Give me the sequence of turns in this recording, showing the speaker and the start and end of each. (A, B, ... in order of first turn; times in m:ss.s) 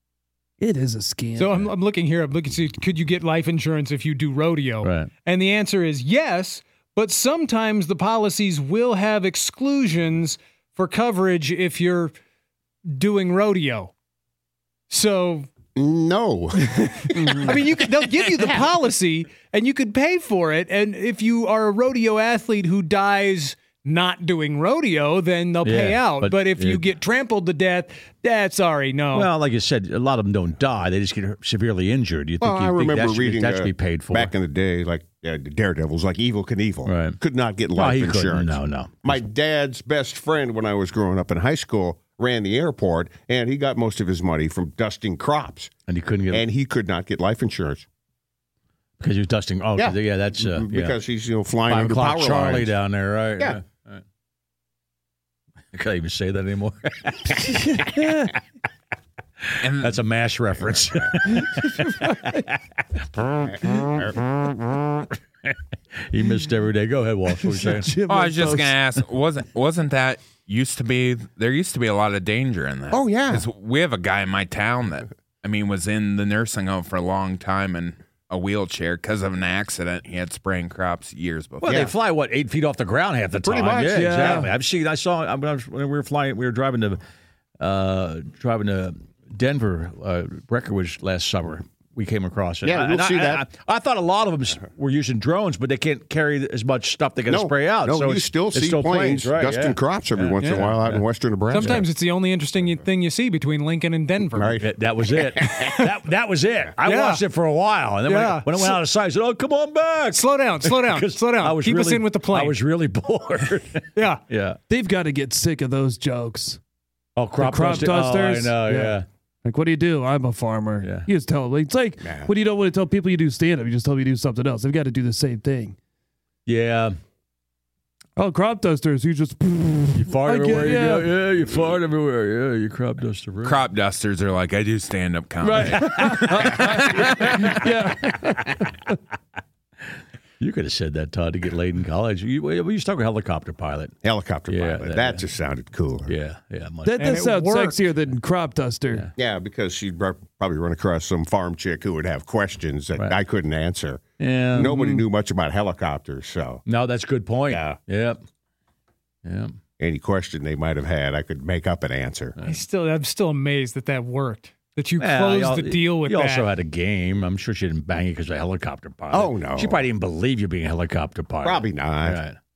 0:00.6-0:01.6 A
0:01.4-0:12.1 B
0:04.8-0:05.1 C
0:12.9-0:13.9 B
0:14.9-0:15.5 B
0:15.8-0:17.5 D
0:17.2-0:17.5 A
0:17.4-0:29.3 B
0:25.6-0:26.9 C
0:29.1-0:34.3 C
0:32.4-0:45.7 D
0:36.8-0:37.2 C
0:37.7-0:39.2 C
0:45.9-0:46.5 C
0:46.3-0:47.8 D
0:49.0-0:51.0 C
0:49.8-0:52.7 D
0:51.6-0:54.0 C
0:55.7-0:58.3 C
0:57.5-0:58.3 A
0:59.4-1:07.9 C
0:59.6-1:00.0 E
1:01.3-1:02.3 A
1:03.8-1:04.1 D
1:07.4-1:08.8 A
1:08.1-1:21.9 E
1:12.9-1:13.4 D
1:21.6-1:27.0 C
1:21.6-1:21.9 D
1:23.4-1:24.5 D
1:23.9-1:24.5 A
1:27.6-1:41.0 C
1:32.6-1:33.4 D
1:37.3-1:41.8 D
1:41.5-1:44.6 B
1:41.6-1:41.8 C
1:44.3-1:45.9 D
1:44.6-1:54.6 C
1:46.8-1:47.2 B
1:48.0-1:48.8 B
1:50.1-1:52.6 B
1:54.0-1:54.2 B
1:54.7-1:56.6 A
1:57.2-1:59.0 C
1:57.4-2:05.8 A
2:00.8-2:01.1 C
2:02.0-2:02.3 D
2:06.4-2:07.0 C
2:08.2-2:11.1 A
2:09.9-2:13.6 C
2:13.4-2:17.6 E
2:15.4-2:19.0 A
2:20.4-2:24.0 C
2:24.0-2:26.1 D
2:24.5-2:25.2 C
2:26.0-2:27.2 C
2:26.8-2:29.1 A
2:27.0-2:27.8 B
2:29.2-2:36.6 D
2:34.2-2:34.8 C
2:34.6-2:35.0 A
2:36.6-2:38.2 C
2:37.5-2:37.8 D
2:39.2-2:39.6 C
2:39.8-2:42.3 D
2:42.4-2:46.5 B
2:45.0-2:52.4 C
2:49.1-2:49.8 D
2:51.4-2:52.2 D